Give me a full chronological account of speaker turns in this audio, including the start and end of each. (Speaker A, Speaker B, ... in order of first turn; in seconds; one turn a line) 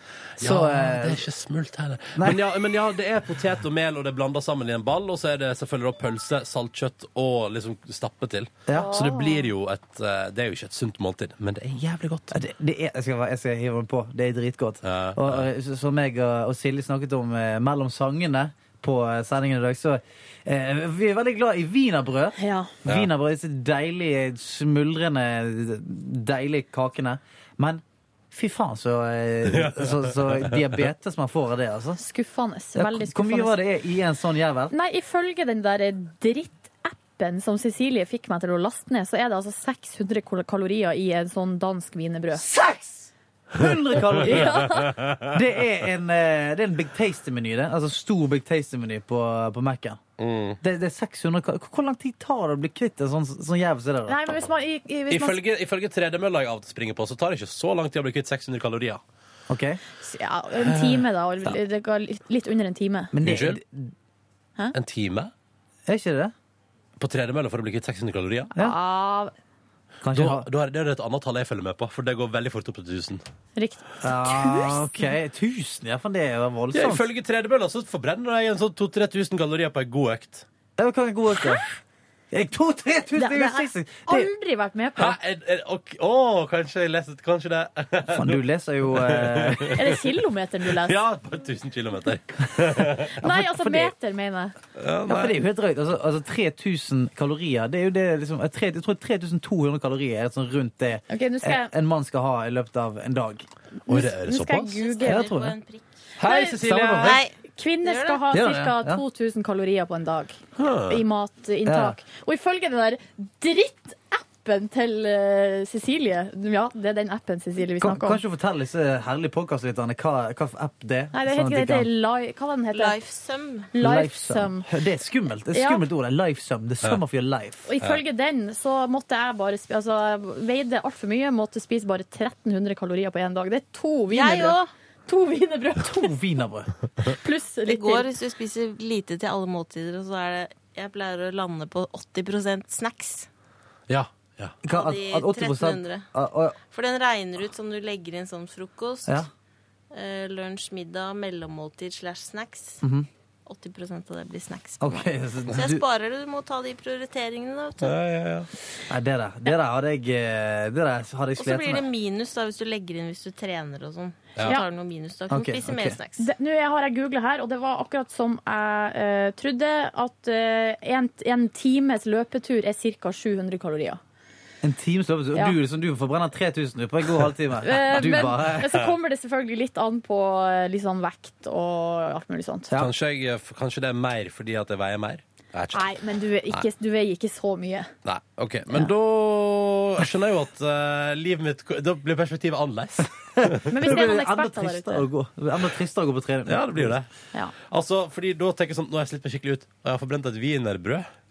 Speaker A: 0.4-1.2
Speaker B: 0.4-12.4
Speaker A: 2.2-2.4
Speaker A: 8.7-9.0
Speaker C: 8.7-9.5
Speaker A: 12.3-32.0
Speaker B: 14.8-15.5
Speaker C: 22.4-22.7
Speaker B: 29.5-30.6
Speaker C: 32.0-33.6
Speaker A: 32.7-34.7
Speaker C: 34.7-42.5
Speaker A: 42.3-50.0
Speaker C: 44.2-45.0
Speaker B: 44.4-45.3
Speaker B: 50.2-50.6
Speaker A: 50.6-54.2
Speaker C: 54.1-55.4
Speaker B: 55.1-59.0
Speaker A: 59.5-59.8
Speaker C: 60.0-63.1
Speaker A: 63.1-63.9
Speaker B: 63.2-63.6
Speaker B: 64.7-65.3
Speaker A: 65.9-66.3
Speaker B: 67.0-68.5
Speaker C: 68.5-69.3
Speaker A: 70.0-70.5
Speaker B: 70.1-73.2
Speaker C: 73.6-75.1
Speaker A: 74.0-77.0
Speaker B: 76.7-80.5
Speaker A: 80.8-81.6
Speaker A: 82.3-84.3
Speaker C: 83.2-85.2
Speaker B: 85.0-88.4
Speaker A: 88.1-89.8
Speaker B: 89.0-89.9
Speaker C: 89.8-91.0
Speaker B: 90.7-93.1
Speaker C: 93.2-94.5
Speaker A: 93.2-93.9
Speaker B: 94.8-95.4
Speaker A: 95.1-103.5
Speaker C: 101.1-101.7
Speaker C: 103.8-105.3
Speaker B: 103.9-104.8
Speaker D: 104.8-106.0
Speaker A: 105.0-105.5
Speaker C: 106.2-110.4
Speaker B: 106.2-107.1
Speaker A: 106.2-107.2
Speaker D: 107.0-108.3
Speaker A: 108.3-109.0
Speaker B: 110.6-111.0
Speaker C: 110.9-118.2
Speaker A: 111.7-112.0
Speaker A: 117.8-121.9
Speaker C: 121.1-123.0
Speaker D: 122.7-123.7
Speaker C: 123.7-124.7
Speaker A: 123.8-127.7
Speaker C: 125.5-125.8
Speaker C: 127.7-136.2
Speaker D: 134.1-134.7
Speaker A: 135.8-136.7
Speaker C: 137.0-138.1
Speaker D: 137.7-143.3
Speaker B: 143.9-144.6
Speaker A: 144.6-146.6
Speaker D: 144.7-146.1
Speaker D: 146.7-149.3
Speaker D: 149.9-152.8
Speaker A: 152.8-153.1
Speaker D: 153.5-157.9
Speaker A: 154.8-155.8
Speaker B: 157.8-158.5
Speaker A: 158.9-161.9
Speaker D: 161.4-166.3
Speaker A: 165.3-166.0
Speaker C: 166.2-174.0
Speaker A: 174.6-178.8
Speaker C: 177.6-182.7
Speaker B: 182.7-185.9
Speaker C: 185.7-187.9
Speaker B: 188.1-193.9
Speaker A: 193.4-197.0
Speaker C: 193.7-195.1
Speaker B: 196.5-197.1
Speaker B: 197.6-201.1